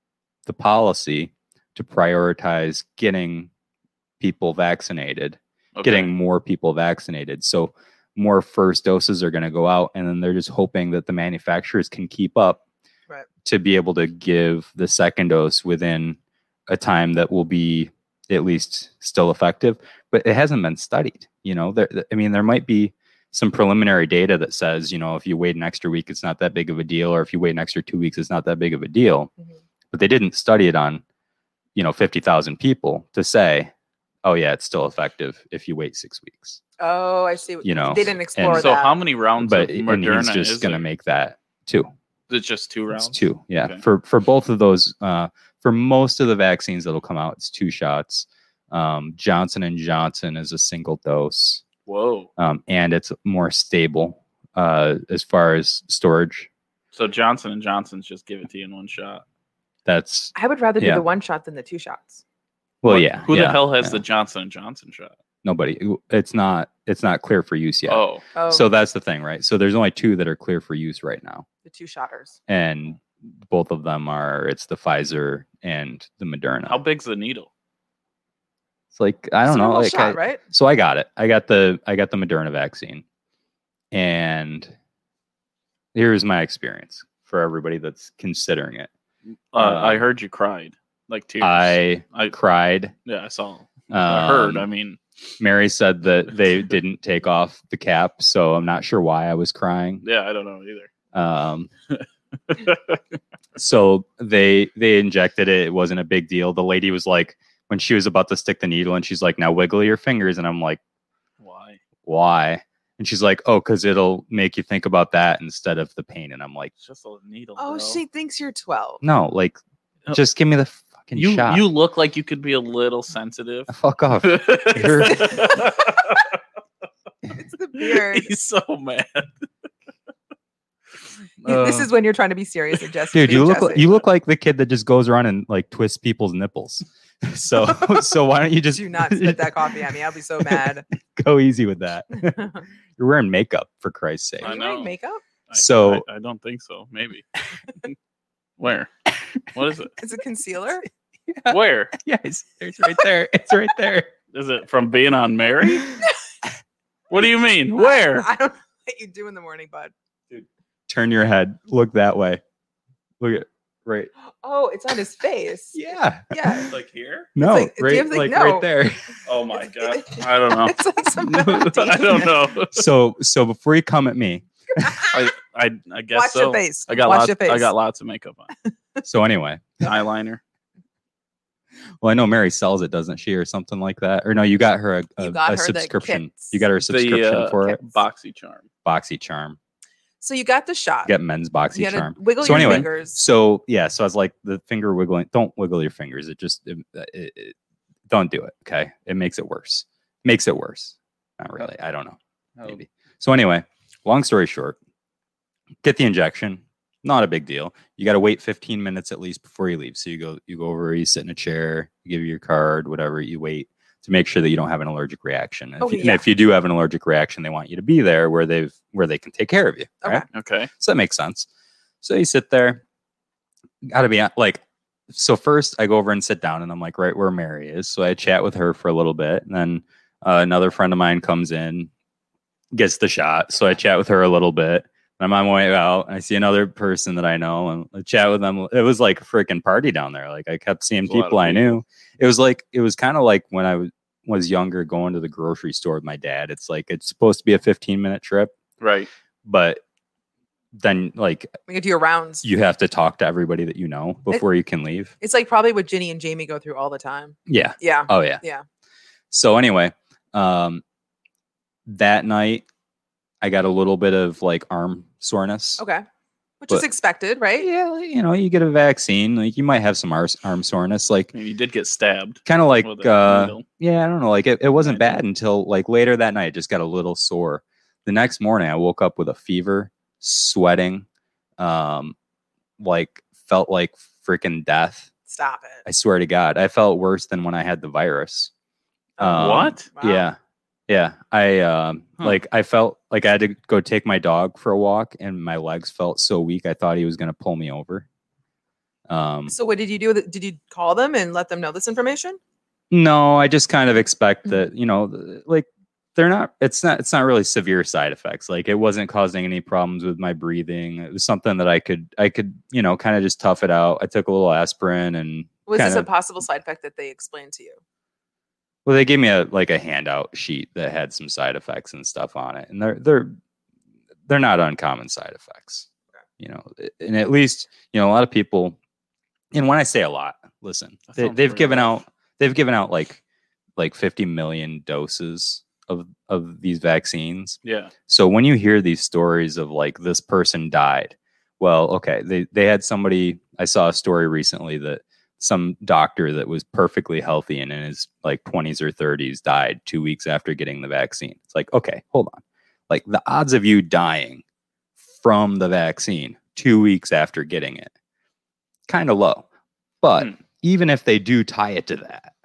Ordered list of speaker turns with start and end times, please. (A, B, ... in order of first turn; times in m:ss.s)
0:00.5-0:03.5 A
0:04.2-0:12.6 A
0:05.8-0:06.1 B
0:13.4-0:29.3 A
0:29.9-0:31.0 A
0:31.8-0:33.7 A
0:34.2-0:36.6 A
0:36.8-0:39.0 C
0:37.6-0:38.7 A
0:38.4-0:40.9 B
0:39.4-0:41.9 A
0:42.3-0:43.8 B
0:43.0-0:51.6 A
0:51.9-0:52.3 B
0:52.4-0:56.5 A
0:56.9-0:59.2 B
0:59.9-1:01.0 A
1:00.4-1:02.2 C
1:02.8-1:04.0 A
1:02.9-1:05.2 B
1:05.4-1:11.5 A
1:07.9-1:08.2 B
1:08.4-1:08.7 C
1:11.6-1:12.4 C
1:12.5-1:16.8 A
1:16.7-1:17.5 B
1:18.9-1:23.0 A
1:19.4-1:20.4 C
1:23.9-1:24.7 A
1:25.9-1:28.9 A
1:29.5-1:32.4 B
1:29.6-1:30.0 A
1:31.4-1:32.9 A
1:33.0-1:35.0 B
1:33.9-1:34.7 A
1:35.4-1:40.0 A
1:40.0-1:40.9 B
1:41.1-1:41.7 A
1:41.9-1:43.0 B
1:43.6-1:50.8 A
1:51.4-1:51.8 B
1:52.0-1:56.7 A
1:56.8-1:58.0 B
1:57.6-1:59.0 C
1:59.0-1:59.6 A
2:00.1-2:01.6 A
2:01.2-2:06.3 B
2:03.7-2:05.5 A
2:05.2-2:05.7 C
2:07.4-2:08.4 C
2:07.8-2:09.5 B
2:11.4-2:14.0 C
2:11.4-2:11.9 A
2:13.1-2:19.8 A
2:17.6-2:18.1 C
2:18.7-2:20.9 C
2:20.4-2:22.4 A
2:22.2-2:22.6 C
2:23.0-2:24.5 A
2:24.4-2:25.2 C
2:24.4-2:24.9 B
2:25.5-2:27.3 B
2:25.6-2:26.0 A
2:28.6-2:28.9 B
2:29.5-2:29.9 B
2:30.0-2:30.9 C
2:31.3-2:34.1 A
2:31.5-2:31.9 B
2:34.3-2:36.0 B
2:37.1-2:38.3 B
2:37.8-2:39.9 C
2:40.9-2:42.4 A
2:43.2-2:44.1 A
2:44.4-2:46.7 C
2:45.7-2:46.7 A
2:46.7-2:47.3 B
2:47.4-2:49.1 A
2:47.4-2:48.7 C
2:49.3-2:50.8 B
2:49.8-2:52.4 C
2:51.2-2:52.0 A
2:51.6-2:52.9 B
2:52.7-2:55.1 A
2:54.8-2:55.2 C
2:55.1-2:58.5 B
2:56.2-2:57.7 C
2:59.0-2:59.8 A
2:59.8-3:00.4 B
3:02.0-3:07.8 A
3:05.2-3:06.6 C
3:06.9-3:08.6 B
3:08.8-3:09.6 A
3:10.2-3:11.1 C
3:11.1-3:17.6 A
3:11.7-3:13.2 C
3:18.1-3:24.8 A
3:25.8-3:40.2 A
3:35.8-3:36.2 C
3:40.3-3:40.7 B
3:40.8-3:41.5 A
3:42.0-3:42.8 A
3:43.8-3:51.9 A
3:52.7-4:08.6 A
4:01.1-4:01.8 B
4:08.8-4:09.1 B
4:09.4-4:09.8 A
4:10.7-4:11.5 A
4:11.7-4:12.5 C
4:12.4-4:15.1 A
4:15.2-4:18.6 C
4:17.5-4:18.4 A
4:19.3-4:20.8 A
4:21.9-4:22.6 A
4:23.4-4:25.8 A
4:25.8-4:26.0 C
4:26.6-4:27.7 C
4:27.6-4:31.3 A
4:31.3-4:33.7 B
4:32.5-4:41.1 A
4:34.8-4:35.2 B
4:41.6-4:42.2 A
4:42.8-4:45.1 A
4:45.3-4:45.8 C
4:45.8-4:48.5 A
4:49.2-4:50.3 C
4:49.2-4:50.4 A
4:49.3-4:49.9 B
4:50.9-4:58.1 A
4:59.1-4:59.6 A
4:59.5-5:02.4 C
5:02.9-5:16.1 A
5:15.7-5:17.8 C
5:18.8-5:23.4 A
5:24.3-5:25.9 A
5:26.4-5:28.8 A
5:29.5-5:33.2 A
5:31.1-5:32.0 B
5:33.8-5:54.4 A
5:37.6-5:37.9 B
5:55.2-5:57.9 A
5:58.9-5:59.5 A
6:00.0-6:02.3 A